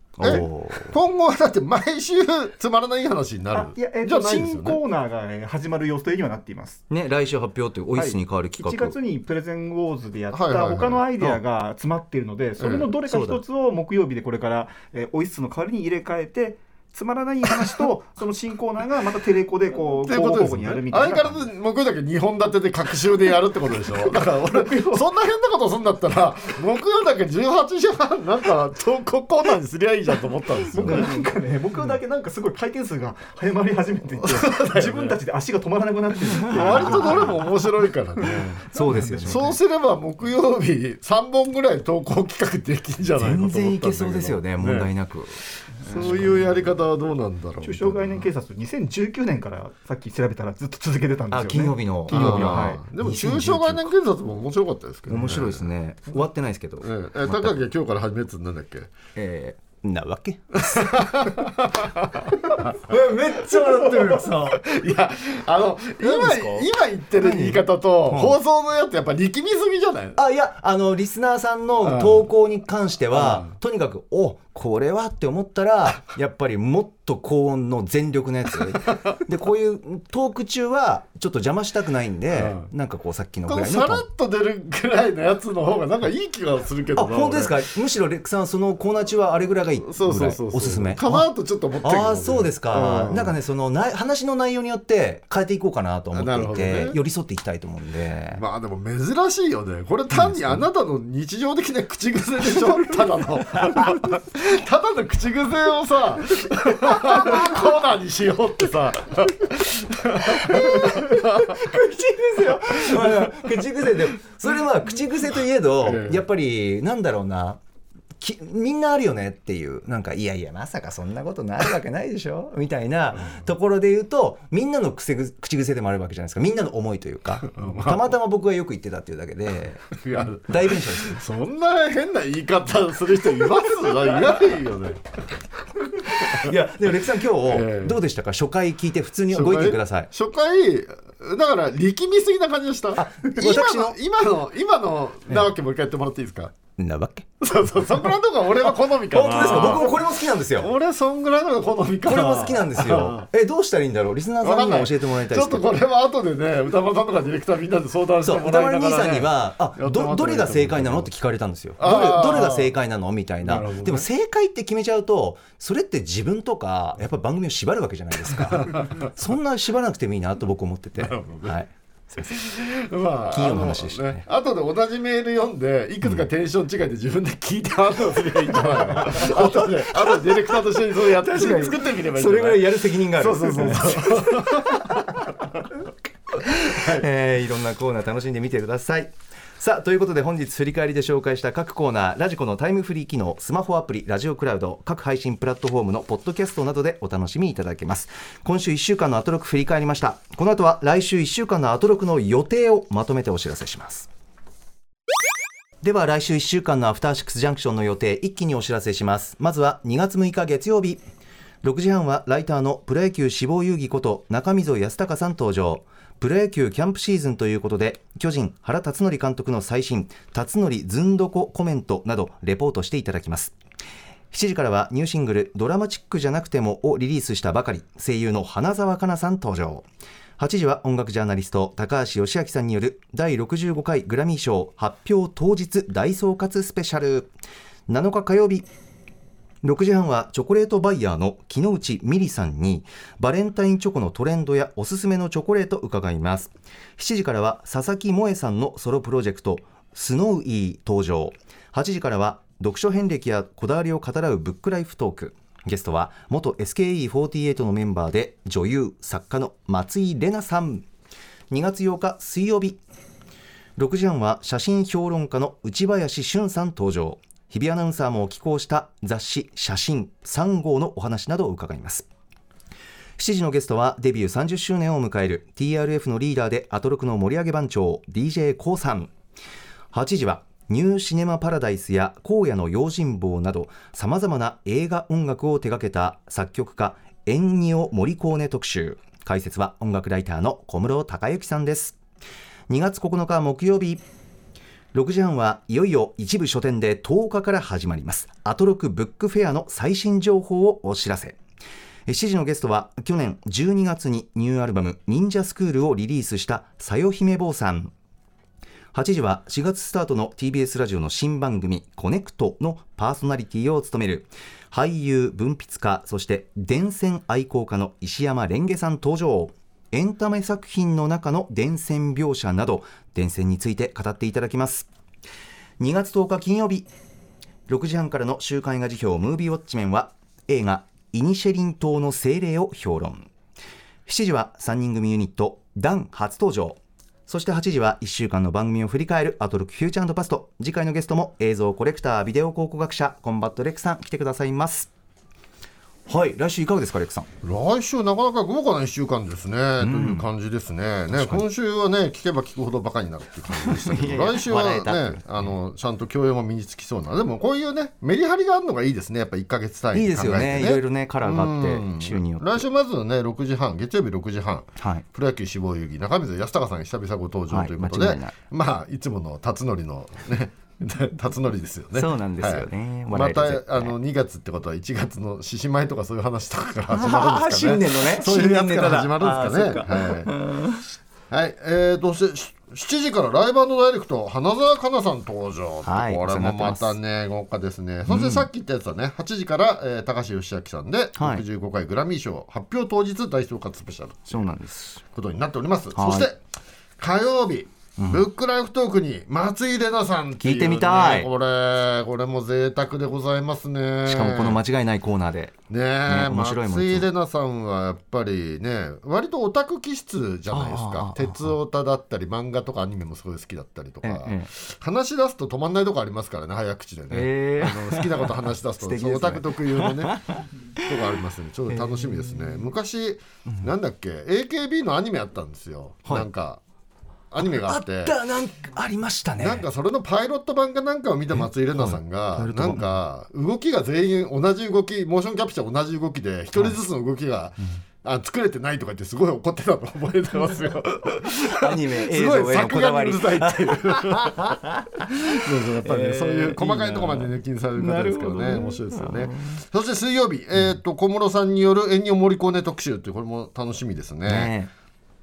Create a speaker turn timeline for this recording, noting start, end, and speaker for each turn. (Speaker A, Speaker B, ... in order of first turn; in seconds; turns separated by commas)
Speaker A: 0.2-1.0, Speaker B: 0.2-4.8, Speaker C: 3.5-6.8, Speaker A: 6.9-8.9, Speaker C: 8.0-21.4, Speaker B: 10.3-11.1, Speaker B: 12.6-12.9, Speaker A: 13.0-13.4, Speaker B: 20.0-31.2, Speaker C: 24.0-25.0, Speaker C: 30.7-37.5, Speaker A: 30.8-32.0, Speaker B: 34.2-35.2, Speaker A: 36.4-37.4, Speaker B: 36.5-38.6, Speaker C: 38.2-39.5, Speaker A: 38.7-39.5, Speaker B: 39.2-44.9, Speaker A: 43.2-46.5, Speaker B: 45.8-48.3, Speaker C: 45.9-46.6, Speaker C: 47.6-52.8, Speaker A: 51.3-53.9, Speaker B: 52.1-55.7, Speaker A: 55.1-57.6, Speaker B: 56.8-58.9, Speaker A: 59.1-61.3, Speaker B: 60.5-63.0, Speaker A: 62.4-64.6, Speaker B: 63.5-70.2, Speaker A: 66.0-68.4, Speaker A: 70.2-84.0, Speaker B: 71.8-72.2, Speaker B: 73.1-73.5, Speaker B: 78.9-79.2, Speaker B: 82.3-82.7, Speaker B: 83.5-87.6, Speaker A: 87.0-91.3, Speaker B: 89.8-93.3, Speaker A: 91.8-98.4, Speaker B: 96.1-97.0, Speaker B: 98.3-111.7, Speaker A: 100.2-100.6, Speaker A: 107.1-107.5, Speaker A: 110.2-117.6, Speaker B: 112.5-113.6, Speaker B: 115.8-116.2, Speaker A: 118.2-129.9, Speaker B: 127.5-128.0, Speaker B: 129.9-135.1, Speaker A: 130.5-131.2, Speaker B: 136.0-136.5, Speaker A: 136.1-140.1, Speaker B: 137.4-138.0, Speaker B: 139.3-146.5, Speaker A: 142.9-144.0, Speaker A: 146.8-147.3, Speaker B: 147.4-153.2, Speaker A: 149.1-150.7, Speaker A: 152.1-155.7, Speaker B: 154.4-161.1, Speaker A: 158.2-172.3, Speaker B: 161.8-162.8, Speaker B: 163.4-164.1, Speaker B: 168.4-169.1, Speaker B: 171.0-171.6, Speaker B: 172.2-185.6, Speaker A: 173.3-174.2, Speaker A: 178.6-180.4, Speaker A: 181.1-184.9, Speaker B: 186.6-187.1, Speaker A: 186.6-204.1, Speaker A: 205.8-211.0, Speaker A: 211.6-223.5, Speaker A: 224.3-229.8, Speaker A: 230.4-237.3, Speaker A: 237.9-238.7, Speaker A: 239.6-260.9, Speaker A: 261.5-262.8, Speaker A: 263.8-272.1, Speaker A: 273.2-279.1, Speaker A: 279.9-292.0, Speaker A: 292.7-294.0, Speaker A: 294.9-301.4, Speaker A: 302.1-307.9, Speaker A: 308.9-324.9, Speaker A: 325.8-326.9, Speaker A: 327.7-333.3, Speaker A: 334.1-344.9, Speaker A: 346.1-347.3, Speaker B: 347.4-380.3, Speaker A: 349.8-350.2, Speaker A: 351.1-351.4, Speaker A: 353.7-355.2, Speaker A: 359.9-362.6, Speaker A: 364.8-365.0, Speaker A: 367.5-368.4, Speaker A: 371.9-373.9, Speaker A: 376.9-380.8, Speaker B: 381.3-394.3, Speaker A: 385.8-386.9, Speaker A: 388.1-388.5, Speaker A: 391.2-391.4, Speaker A: 394.3-395.0, Speaker B: 395.1-396.4, Speaker A: 395.9-396.3, Speaker B: 397.0-404.6, Speaker A: 398.0-398.2, Speaker A: 400.4-401.3, Speaker A: 404.0-405.5, Speaker B: 405.7-420.2, Speaker A: 406.1-407.1, Speaker A: 410.5-411.5, Speaker A: 414.0-414.5, Speaker A: 417.1-420.9, Speaker B: 420.8-426.6, Speaker A: 421.7-422.6, Speaker B: 427.3-428.1, Speaker A: 427.4-429.6, Speaker B: 429.4-454.5, Speaker A: 431.8-432.9, Speaker A: 441.4-449.6, Speaker A: 454.3-454.7